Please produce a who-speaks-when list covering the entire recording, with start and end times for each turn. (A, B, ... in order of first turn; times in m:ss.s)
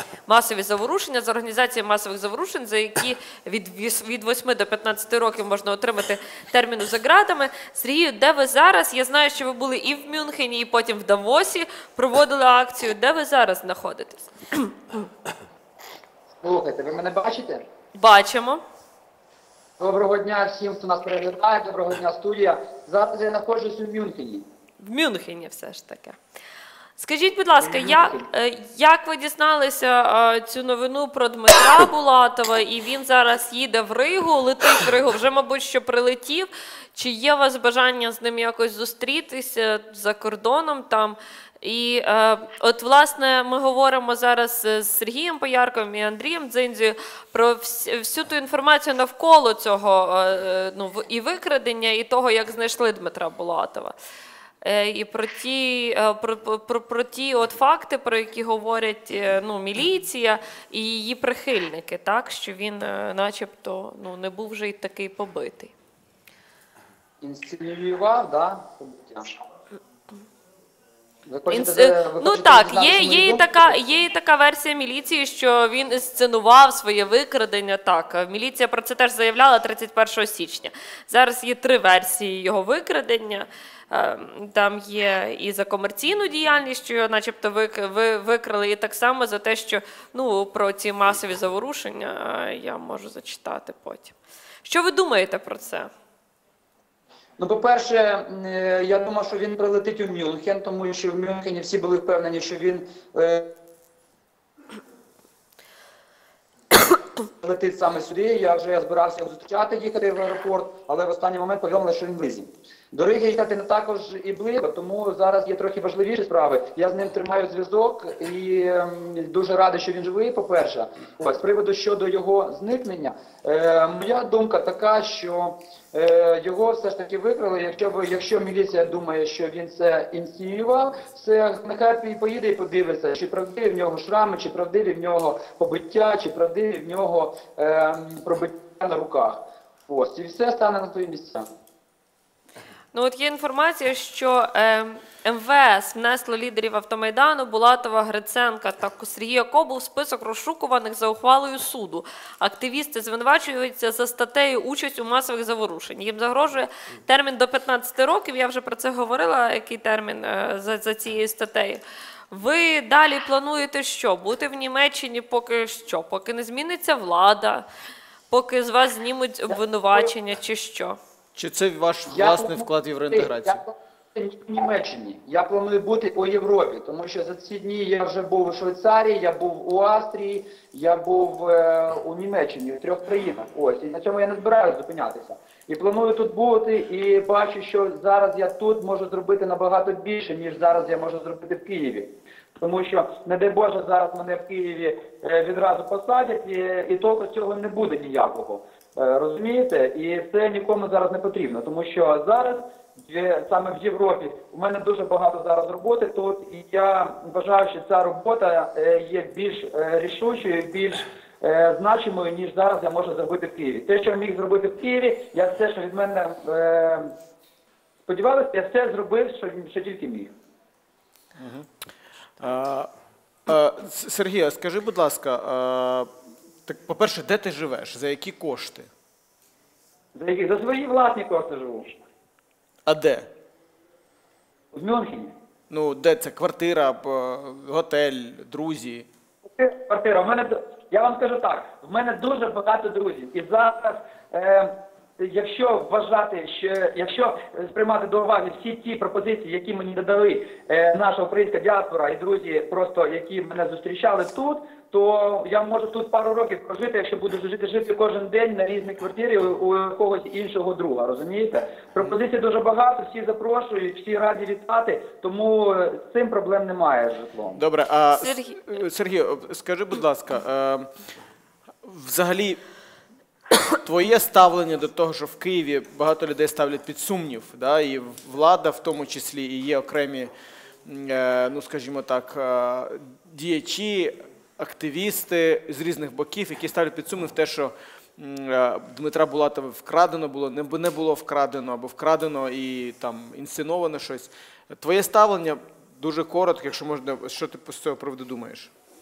0:00.2-0:15.0 A
0:16.4-0:17.6 B
0:17.9-0:18.6 A
0:19.8-0:24.4 B
0:24.8-0:26.2 A
0:27.0-0:53.9 A
0:27.6-0:28.2 B
0:54.6-1:05.7 A
1:07.2-1:09.3 B
1:11.2-1:14.0 B
1:11.5-1:35.9 A
1:37.4-1:43.5 B
1:47.4-2:21.5 B
2:22.9-2:47.6 A
2:48.3-2:51.0 A
2:49.5-2:50.1 B
2:51.3-2:53.6 C
2:52.1-3:37.1 B
3:38.1-3:40.3 B
3:41.4-3:41.7 C
3:42.4-3:42.9 C
3:43.4-3:46.1 C
3:46.6-3:48.9 C
3:50.1-3:51.9 B
3:52.8-3:53.3 C
3:54.7-3:55.3 B
3:55.7-3:59.1 C
3:59.4-4:27.6 B
4:27.6-4:30.9 C
4:28.1-4:28.7 A
4:31.8-4:32.6 C
4:33.8-4:40.3 C
4:40.8-4:58.7 C